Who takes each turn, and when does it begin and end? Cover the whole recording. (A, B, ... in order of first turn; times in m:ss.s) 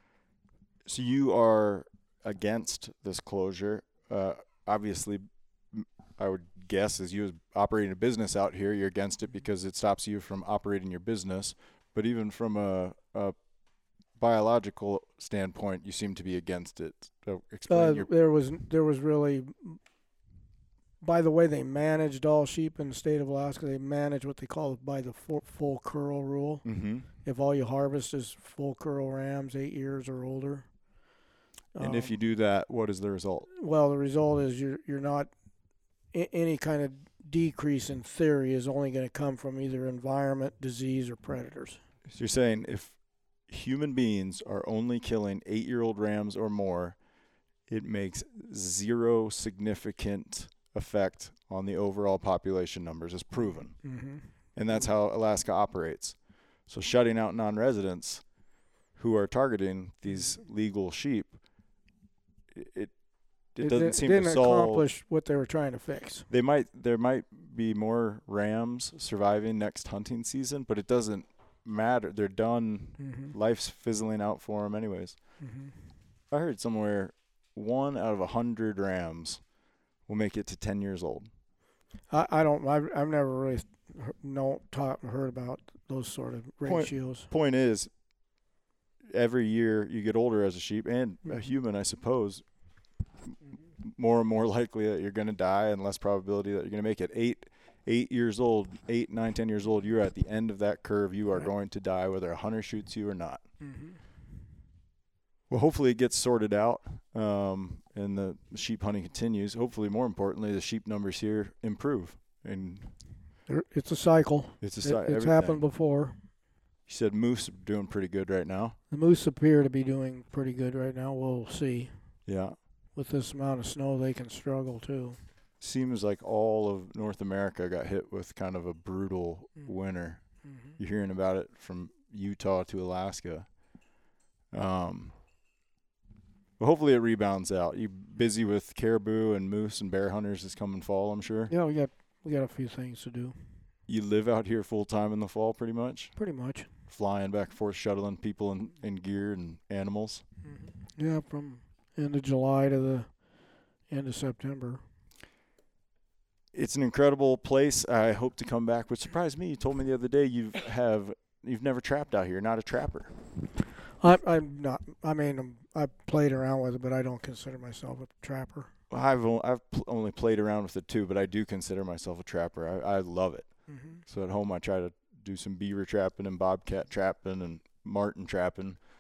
0:00.9-0:13.4 A
0:14.2-0:18.1 A
0:17.7-0:19.8 B
0:21.0-0:26.6 B
0:26.6-0:27.1 A
0:27.2-0:30.7 B
0:31.8-0:32.2 B
0:31.8-0:33.5 A
0:33.6-0:35.3 B
0:36.1-0:41.8 B
0:42.1-0:43.0 A
0:43.5-0:47.0 A
0:47.7-0:53.8 A
0:53.8-0:54.3 B
0:54.6-0:56.2 A
0:56.7-0:58.2 A
0:59.0-1:01.4 A
1:02.5-1:02.9 A
1:03.6-1:04.9 A
1:03.6-1:06.3 B
1:06.3-1:15.2 A
1:13.0-1:13.4 B
1:15.4-1:15.7 B
1:16.3-1:19.4 A
1:20.1-1:21.3 A
1:22.1-1:27.3 B
1:26.6-1:27.9 A
1:29.1-1:32.4 A
1:33.3-1:43.4 A
1:43.6-1:44.0 B
1:45.5-1:52.9 A
1:53.5-1:56.2 B
1:54.6-1:55.6 A
1:56.9-1:58.8 A
1:58.9-2:01.9 B
2:02.3-2:02.6 A
2:03.0-2:05.2 B
2:05.6-2:10.2 A
2:10.8-2:13.5 A
2:14.5-2:15.1 A
2:16.6-2:21.5 A
2:21.5-2:23.4 B
2:23.9-2:26.1 A
2:26.2-2:26.7 B
2:26.9-2:30.2 A
2:30.9-2:33.1 B
2:33.9-2:34.8 B
2:36.5-2:43.1 A
2:44.0-2:48.7 B
2:48.9-2:53.5 A
2:53.7-2:54.0 B
2:54.1-2:58.8 A